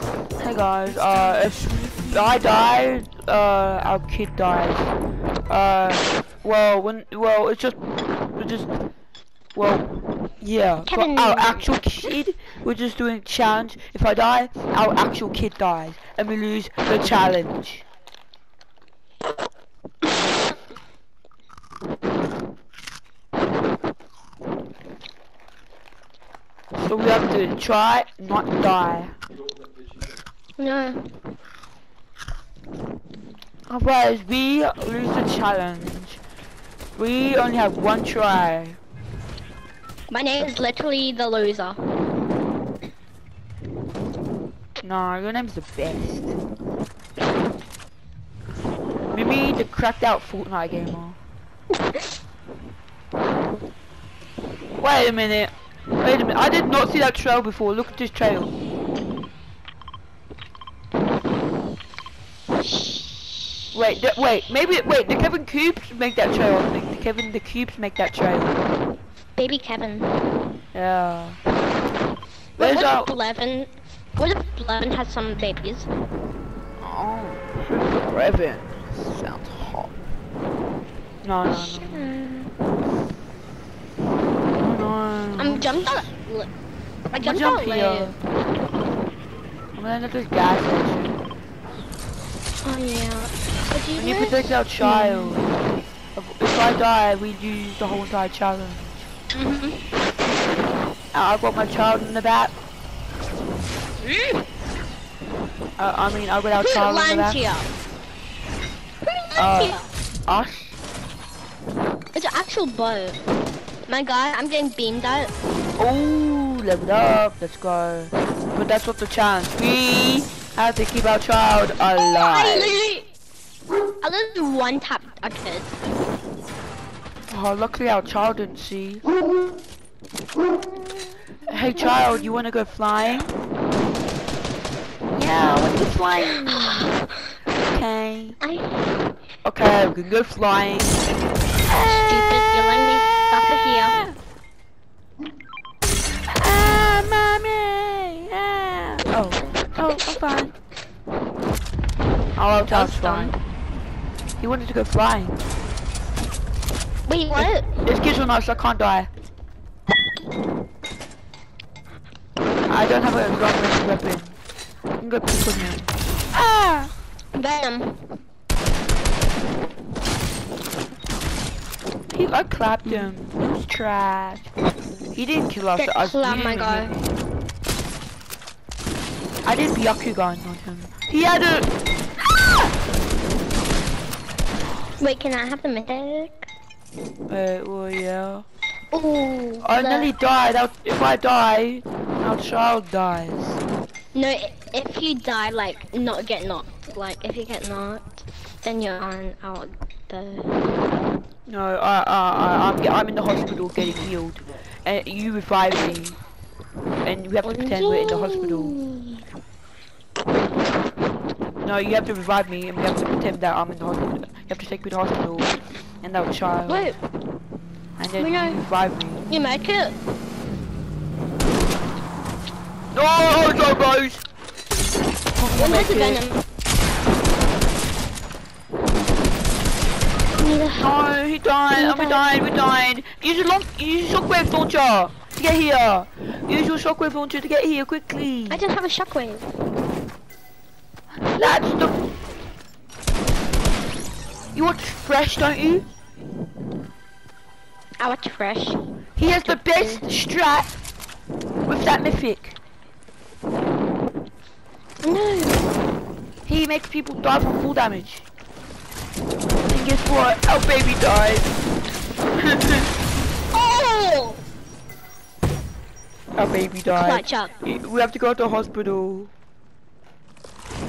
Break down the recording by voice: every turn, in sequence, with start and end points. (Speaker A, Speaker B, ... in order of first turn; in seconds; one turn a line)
Speaker A: 0.4-4.9
Speaker A: 5.5-7.8
Speaker A: 8.3-8.7
Speaker A: 9.5-17.8
Speaker B: 10.8-12.1
Speaker A: 26.7-29.1
Speaker B: 30.6-31.1
Speaker A: 33.7-36.2
Speaker A: 37.0-38.8
Speaker B: 40.1-41.8
Speaker A: 44.8-46.4
Speaker A: 49.1-51.2
Speaker A: 54.8-58.5
Speaker B: 62.6-63.5
Speaker A: 63.7-68.6
Speaker B: 69.3-70.2
Speaker A: 70.7-71.4
Speaker B: 72.6-75.9
Speaker A: 72.6-73.1
Speaker A: 76.8-79.9
Speaker A: 81.2-82.1
Speaker B: 81.5-82.5
Speaker A: 84.5-85.9
Speaker B: 85.4-86.5
Speaker B: 87.1-88.2
Speaker A: 87.2-88.2
Speaker A: 89.7-91.2
Speaker B: 92.6-95.4
Speaker A: 94.0-95.5
Speaker A: 96.1-99.1
Speaker B: 99.3-99.9
Speaker A: 101.1-102.5
Speaker B: 104.0-104.4
Speaker A: 105.8-107.4
Speaker B: 106.6-107.7
Speaker B: 109.0-109.9
Speaker A: 109.3-110.8
Speaker B: 112.1-113.2
Speaker B: 113.9-115.3
Speaker A: 115.8-122.8
Speaker B: 122.1-123.1
Speaker B: 124.0-125.8
Speaker A: 127.3-129.0
Speaker A: 131.4-133.3
Speaker A: 135.1-136.9
Speaker B: 136.5-137.0
Speaker A: 137.6-138.4
Speaker B: 138.4-138.9
Speaker A: 139.4-141.0
Speaker B: 141.7-144.0
Speaker A: 146.3-150.5
Speaker A: 152.3-153.3
Speaker B: 152.6-153.4
Speaker A: 154.4-155.4
Speaker B: 157.1-157.7
Speaker A: 157.3-159.1
Speaker A: 162.7-164.4
Speaker A: 165.0-166.9
Speaker B: 167.3-167.9
Speaker A: 172.1-174.5
Speaker A: 175.1-177.0
Speaker B: 175.8-177.0
Speaker A: 179.4-181.7
Speaker B: 185.0-186.5
Speaker A: 187.3-188.4
Speaker B: 188.9-190.1
Speaker A: 189.6-193.6
Speaker B: 194.1-200.5
Speaker A: 201.4-206.2
Speaker A: 207.0-208.8
Speaker B: 207.4-209.2
Speaker A: 211.6-216.9
Speaker B: 216.7-217.0
Speaker A: 218.0-219.2
Speaker B: 218.2-218.6
Speaker B: 219.3-220.0
Speaker A: 222.9-224.2
Speaker A: 225.3-226.2
Speaker B: 225.5-226.4
Speaker B: 230.3-230.9
Speaker A: 230.8-238.6
Speaker B: 231.7-232.4
Speaker B: 238.5-239.5
Speaker A: 241.2-242.0
Speaker A: 244.5-245.8
Speaker B: 248.0-248.8
Speaker A: 249.2-250.7
Speaker B: 249.4-250.1
Speaker A: 251.7-252.6
Speaker B: 255.0-255.7
Speaker A: 256.4-258.2
Speaker A: 259.6-261.5
Speaker A: 262.4-262.9
Speaker B: 263.5-264.4
Speaker A: 266.3-269.3
Speaker B: 266.9-267.6